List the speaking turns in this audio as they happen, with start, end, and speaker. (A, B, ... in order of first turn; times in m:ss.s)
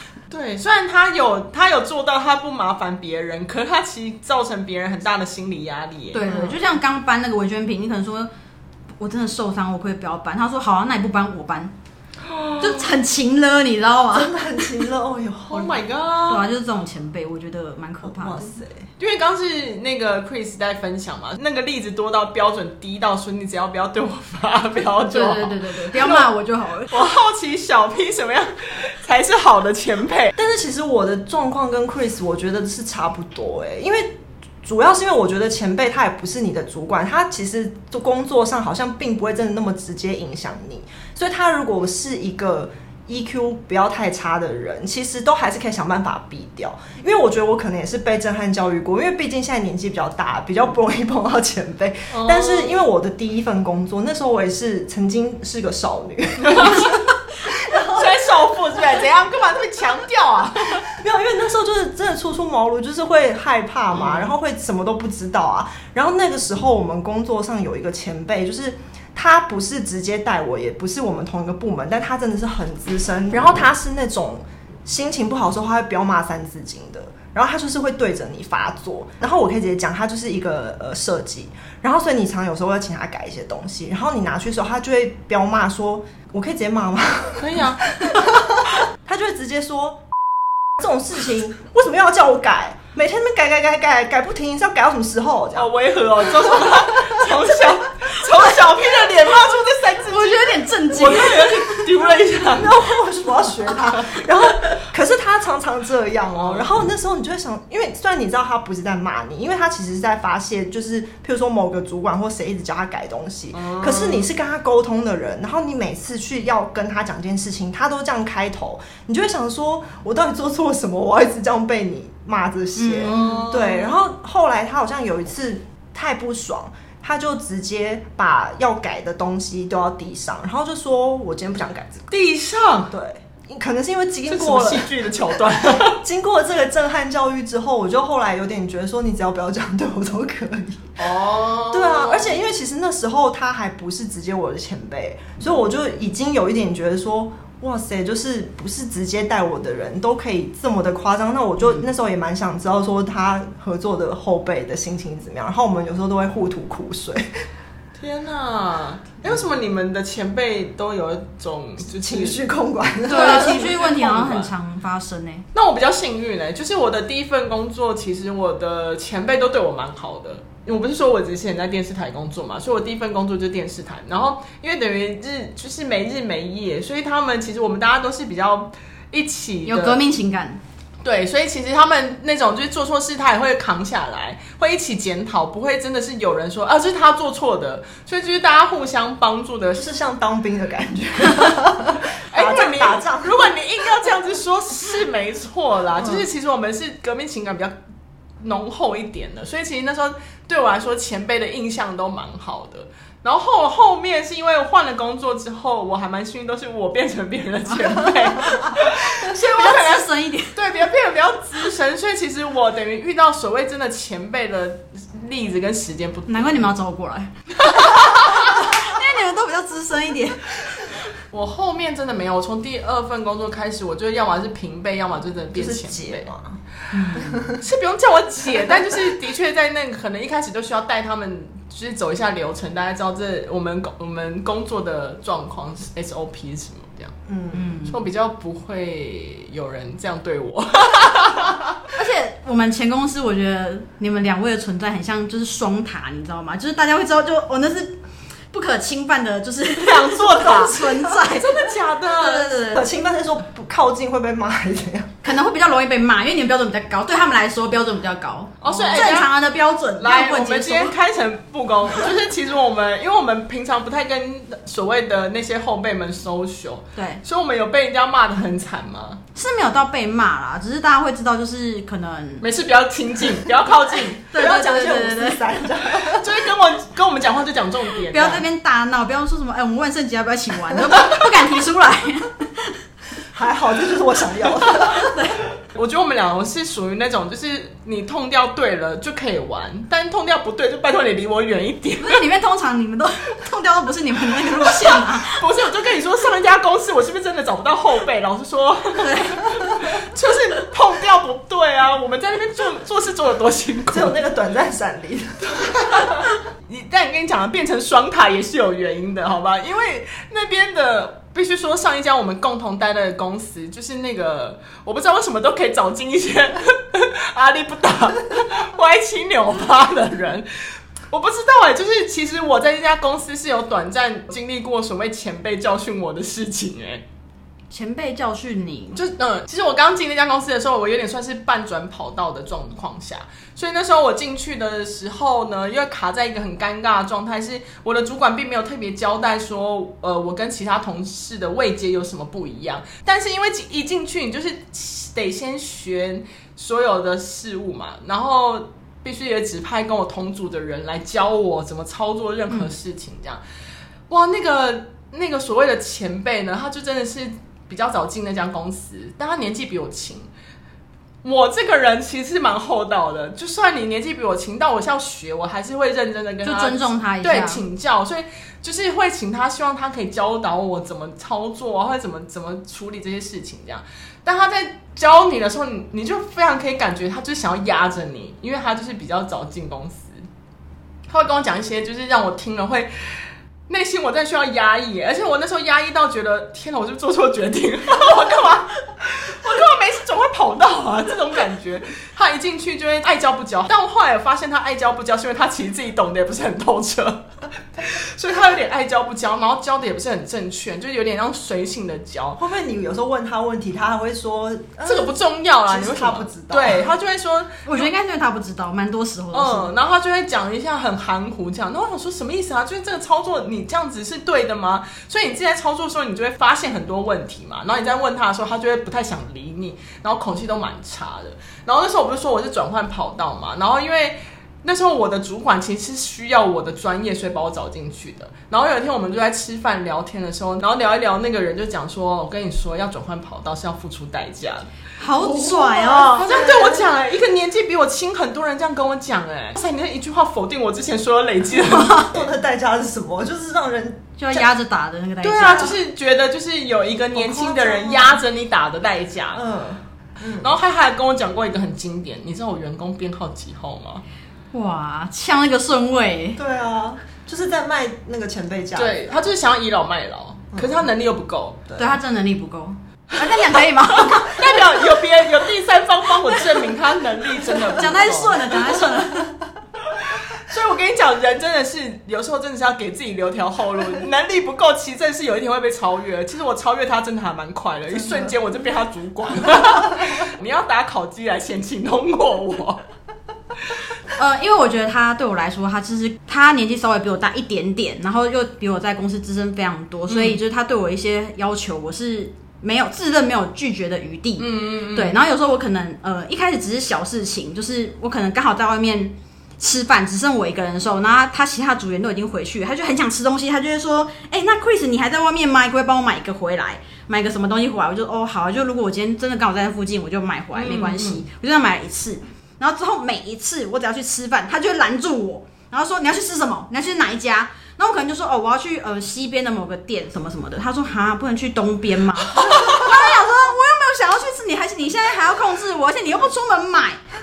0:00.3-0:06.3 A
0:06.1-0:08.3 B
0:09.0-0:11.7 B
0:12.2-0:13.0 A
0:12.6-0:14.7 B
0:14.1-0:15.8 C
0:15.5-0:16.5 A
0:16.3-0:18.5 B
0:18.0-0:18.9 C
0:19.0-0:26.3 A
0:25.1-0:27.0 B
0:26.9-0:30.4 A
0:30.4-0:58.2 C
0:52.1-0:52.8 A
0:56.4-0:57.0 A
0:57.5-1:00.9 A
1:00.8-1:30.1 C
1:03.9-1:04.3 A
1:27.4-1:28.3 A
1:30.7-1:35.7 C
1:35.6-1:42.9 A
1:36.2-1:37.6 C
1:40.1-1:41.8 B
1:42.4-2:12.1 C
1:43.9-1:44.2 A
1:46.3-1:46.7 A
1:53.5-1:54.3 A
2:02.8-2:03.4 B
2:03.0-2:04.0 A
2:12.1-2:12.9 A
2:12.9-2:14.9 C
2:14.3-2:16.0 A
2:15.6-2:21.0 C
2:21.0-2:22.4 A
2:21.7-2:37.3 C
2:38.0-2:42.4 A
2:41.9-2:43.7 C
2:43.1-2:45.4 B
2:43.1-2:44.5 A
2:45.5-3:00.0 A
2:59.7-3:00.6 B
3:01.0-3:09.9 A
3:09.8-3:14.1 C
3:12.3-3:17.7 A
3:16.0-3:16.2 C
3:18.4-3:36.7 A
3:28.6-3:30.6 B
3:36.3-3:40.9 B
3:37.6-3:38.7 A
3:41.3-3:46.3 A
3:45.5-3:46.6 C
3:46.9-3:47.4 B
3:47.2-3:47.6 C
3:47.5-3:57.1 A
3:57.3-3:57.7 C
3:57.5-3:58.0 B
3:57.8-4:01.8 A
4:01.9-4:08.0 B
4:08.5-4:12.9 B
4:09.7-4:12.6 A
4:12.7-4:15.1 C
4:15.2-4:20.9 B
4:18.6-4:19.3 A
4:20.0-4:29.2 A
4:27.0-4:27.2 B
4:29.4-4:32.5 B
4:32.4-4:34.3 A
4:34.3-4:35.6 B
4:34.3-4:36.4 C
4:36.0-4:38.4 A
4:38.1-4:42.8 B
4:43.3-4:45.1 C
4:44.7-4:45.4 B
4:45.7-4:52.2 A
4:52.0-4:55.4 B
4:54.7-5:04.2 A
4:59.0-4:59.8 B
5:03.9-5:06.2 C
5:05.8-5:27.0 A
5:27.7-5:29.0 B
5:29.0-5:53.4 A
5:54.1-6:00.3 A
6:01.2-6:20.2 A
6:06.4-6:07.6 B
6:21.1-6:42.4 A
6:42.4-6:45.2 C
6:44.8-6:47.9 A
6:45.7-6:46.9 C
6:47.7-6:49.7 B
6:49.3-7:14.7 A
7:15.0-7:16.3 B
7:15.2-7:16.9 C
7:16.2-7:22.2 A
7:21.6-7:22.1 B
7:22.1-7:24.4 C
7:24.2-7:25.8 B
7:25.2-7:29.4 A
7:27.1-7:28.2 C
7:29.4-7:30.5 C
7:30.4-7:34.0 A
7:34.5-7:36.4 B
7:36.4-7:39.0 C
7:38.8-7:41.6 A
7:40.5-7:40.8 C
7:41.7-7:42.0 C
7:41.8-7:44.8 B
7:44.0-7:48.7 A
7:47.5-7:49.4 B
7:49.9-8:02.8 A
8:04.2-8:47.0 B
8:10.1-8:10.4 A
8:14.4-8:15.2 A
8:30.5-8:31.2 A
8:42.4-8:42.9 A